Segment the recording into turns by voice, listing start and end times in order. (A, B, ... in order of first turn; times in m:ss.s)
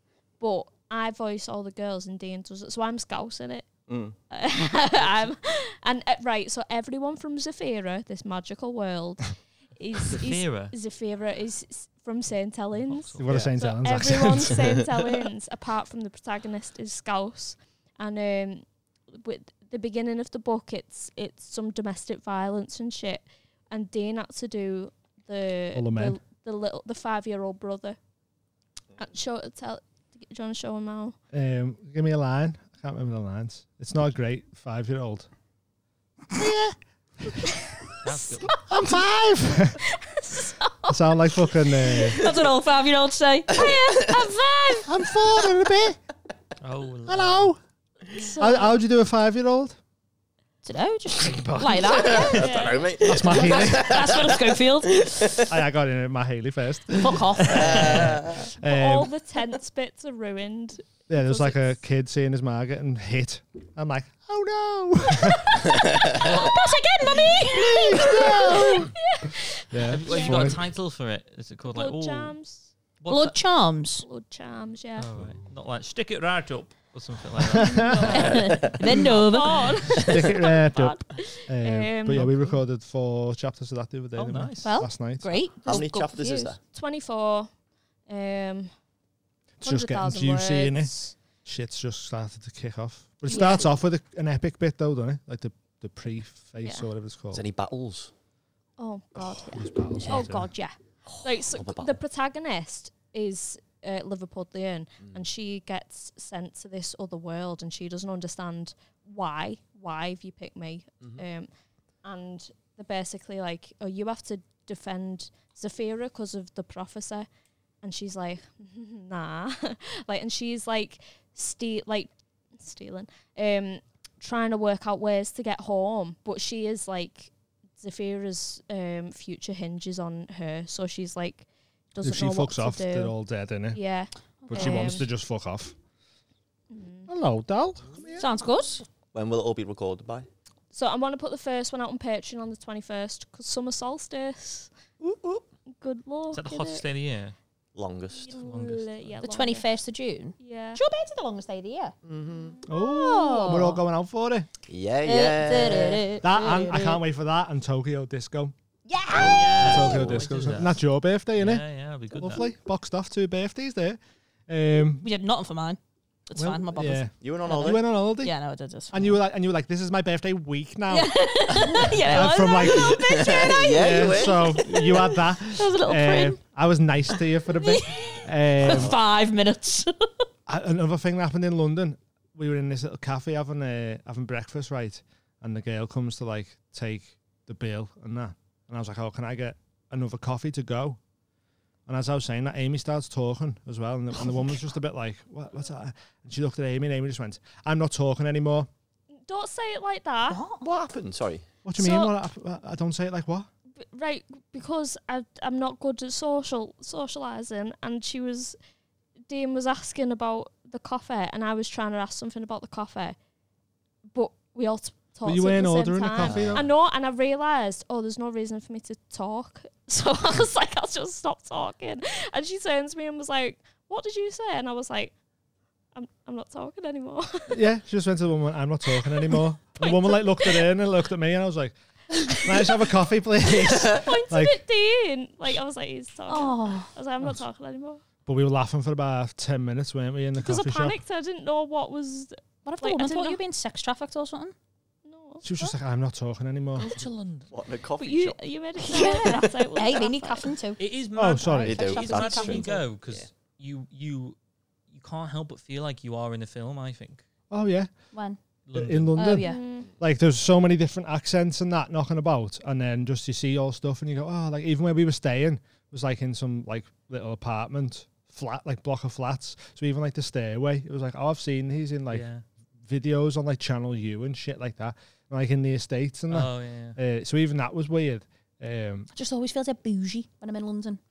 0:00.4-0:03.7 A
0:03.9-0:04.2 B
0:04.3-0:28.0 A
0:10.1-0:10.8 C
0:12.8-0:13.5 C
0:13.2-0:14.8 D
0:25.8-0:26.2 D
0:29.0-0:31.2 A
0:31.3-0:35.3 D
0:36.3-0:36.8 D
0:38.0-0:38.6 C
0:38.6-0:39.8 D
0:40.0-0:41.0 A
0:40.9-0:42.2 D
0:42.1-0:44.9 E
0:43.6-0:43.8 B
0:43.6-0:44.3 A
0:44.9-0:46.0 D
0:46.6-0:47.5 C
0:47.1-0:47.6 D
0:48.1-0:48.8 A
0:48.4-0:49.8 D
0:50.6-0:55.4 E
0:51.3-0:52.1 D
0:51.9-0:55.4 B
0:52.1-0:52.9 A
0:53.0-0:54.1 D
0:55.4-0:59.1 D
0:57.0-0:58.1 E
0:57.5-0:58.5 B
0:58.6-1:01.8 A
1:01.1-1:05.7 D
1:05.8-1:06.2 B
1:06.1-1:08.9 E
1:06.1-1:06.6 C
1:07.5-1:08.9 D
1:08.0-1:10.6 A
1:09.7-1:10.6 D
1:09.8-1:12.4 C
1:11.7-1:12.7 A
1:13.0-1:13.4 C
1:13.1-1:14.1 E
1:14.0-1:15.1 A
1:15.0-1:20.0 C
1:17.4-1:18.2 D
1:17.7-1:22.4 A
1:18.0-1:19.7 E
1:18.4-1:18.7 B
1:19.9-1:25.3 D
1:24.2-1:24.8 C
1:24.6-1:26.4 E
1:25.6-1:26.6 B
1:25.7-1:27.5 A
1:28.1-1:28.7 A
1:29.6-1:30.9 D
1:29.6-1:31.2 A
1:31.4-1:37.4 D
1:33.3-1:33.6 A
1:37.3-1:38.1 B
1:38.8-1:51.5 A
1:39.5-1:40.5 D
1:40.0-1:40.5 E
1:41.5-1:42.0 B
1:45.0-1:45.3 B
1:52.0-1:57.3 A
1:57.8-2:13.2 A
2:12.0-2:13.8 D
2:13.7-2:15.1 A
2:14.4-2:15.0 E
2:14.5-2:15.8 D
2:16.7-2:17.1 A
2:17.1-2:18.2 D
2:18.2-2:18.8 E
2:19.1-2:20.3 B
2:20.7-2:24.7 A
2:25.7-2:26.8 A
2:26.3-2:27.4 C
2:27.8-2:28.4 B
2:28.2-2:29.7 A
2:28.4-2:29.2 C
2:29.2-2:31.9 E
2:30.4-2:30.8 A
2:32.0-2:32.6 B
2:32.7-2:34.5 D
2:32.7-2:33.8 E
2:34.7-2:36.1 B
2:35.0-2:37.0 E
2:36.2-2:38.5 D
2:38.9-2:40.0 E
2:39.2-2:40.8 C
2:39.5-2:40.3 B
2:39.6-2:45.1 D
2:41.4-2:42.4 C
2:45.0-2:48.9 E
2:46.4-2:48.4 D
2:47.2-2:47.9 B
2:48.9-2:59.0 D
2:50.9-2:56.4 E
2:52.6-2:55.0 B
2:57.6-3:00.1 E
2:58.6-2:59.0 B
3:00.5-3:11.0 D
3:11.9-3:18.7 D
3:19.2-3:20.4 A
3:20.3-3:20.6 E
3:20.6-3:21.5 B
3:21.6-3:23.5 D
3:21.8-3:22.1 A
3:23.8-3:28.6 A
3:29.3-3:33.2 A
3:34.1-3:45.1 A
3:35.2-3:36.7 D
3:36.2-3:36.6 B
3:45.9-3:47.6 A
3:47.5-3:51.8 D
3:49.8-3:50.7 A
3:52.2-3:52.9 A
3:52.3-3:54.6 D
3:53.5-3:58.0 A
3:56.3-3:56.9 E
3:58.3-4:01.0 D
4:00.4-4:03.4 A
4:02.6-4:04.5 E
4:05.1-4:05.7 A
4:05.4-4:07.0 D
4:06.8-4:07.5 C
4:07.5-4:08.4 B
4:08.0-4:10.5 A
4:08.8-4:10.8 E
4:10.8-4:14.4 C
4:11.2-4:11.8 D
4:11.6-4:13.3 B
4:11.8-4:12.9 E
4:14.9-4:17.2 C
4:17.5-4:17.9 D
4:18.1-4:18.4 E
4:18.7-4:19.3 C
4:18.7-4:32.3 D
4:19.2-4:19.6 E
4:19.4-4:19.9 A
4:32.1-4:32.4 C
4:32.9-4:39.1 D
4:36.3-4:37.0 C
4:39.1-4:41.0 E